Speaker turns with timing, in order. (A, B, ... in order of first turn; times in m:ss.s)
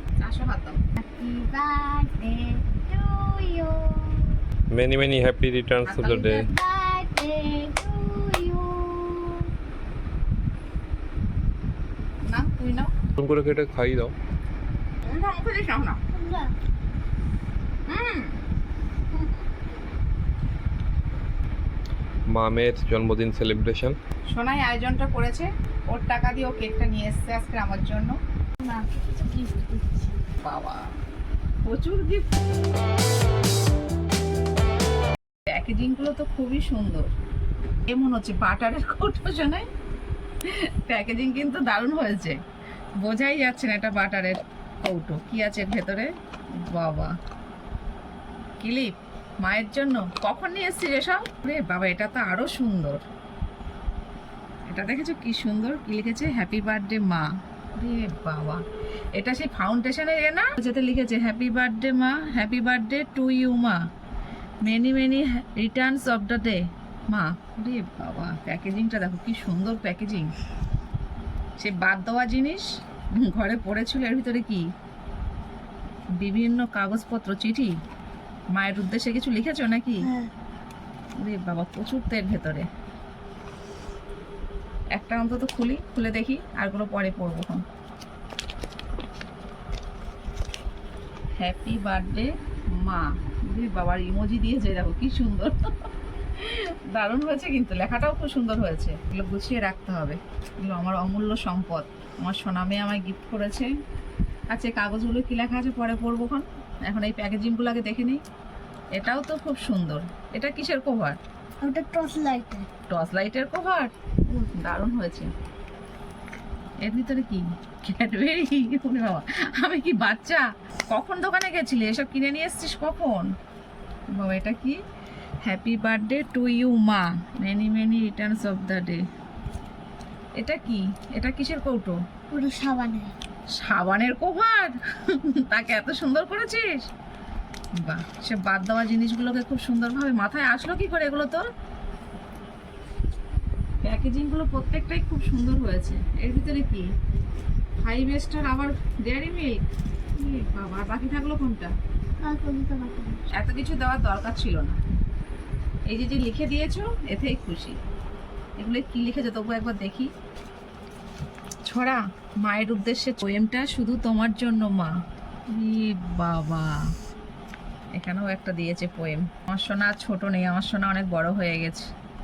0:00.2-0:00.8 A
0:01.0-0:04.4 B
0:04.7-0:06.5 C
0:05.8-0:06.5 A
0:06.5-0:09.5 B
0:12.2-0:12.9 A
0:13.2-0:14.1 C
0:15.1-0:16.0 A
0:16.1-0:16.5 B
0:17.9-0:18.3 A
0:22.3-0:24.0 C
0:24.3-0:28.2 A
0:28.6-0:30.2 B
0:30.4-0:30.8 A
0:31.6-0:32.3 A
0:35.5-0:37.1 A
0:37.9-0:39.7 A
0:40.4-0:42.4 A
0:43.0-0:46.1 A
0:46.6-0:47.1 A
0:48.6-0:53.0 A
0:54.7-0:57.3 A
0:57.8-0:58.6 A
0:59.2-1:03.8 A
1:04.6-1:10.3 A
1:11.6-1:12.7 A
1:13.2-1:14.6 A
1:16.2-1:17.7 A
1:18.5-1:20.1 A
1:20.0-1:20.3 B
1:21.2-1:22.6 A
1:25.0-1:27.6 A
1:31.4-1:35.6 A
1:36.4-1:43.7 A
1:44.5-1:48.2 A
1:49.0-1:51.2 A
1:51.6-1:52.7 B
1:52.9-1:55.3 A
1:56.8-2:03.3 A
2:04.2-2:04.8 A
2:05.4-2:09.0 A
2:10.4-2:12.0 A
2:12.3-2:13.1 B
2:13.6-2:14.8 A
2:15.3-2:16.9 A
2:17.8-2:21.4 A
2:23.8-2:26.9 A
2:27.8-2:29.6 A
2:30.2-2:31.7 A
2:32.2-2:33.2 B
2:33.3-2:34.8 A
2:35.9-2:37.8 A
2:38.6-2:40.1 A
2:41.7-2:44.9 A
2:45.5-2:46.8 A
2:48.0-2:51.9 A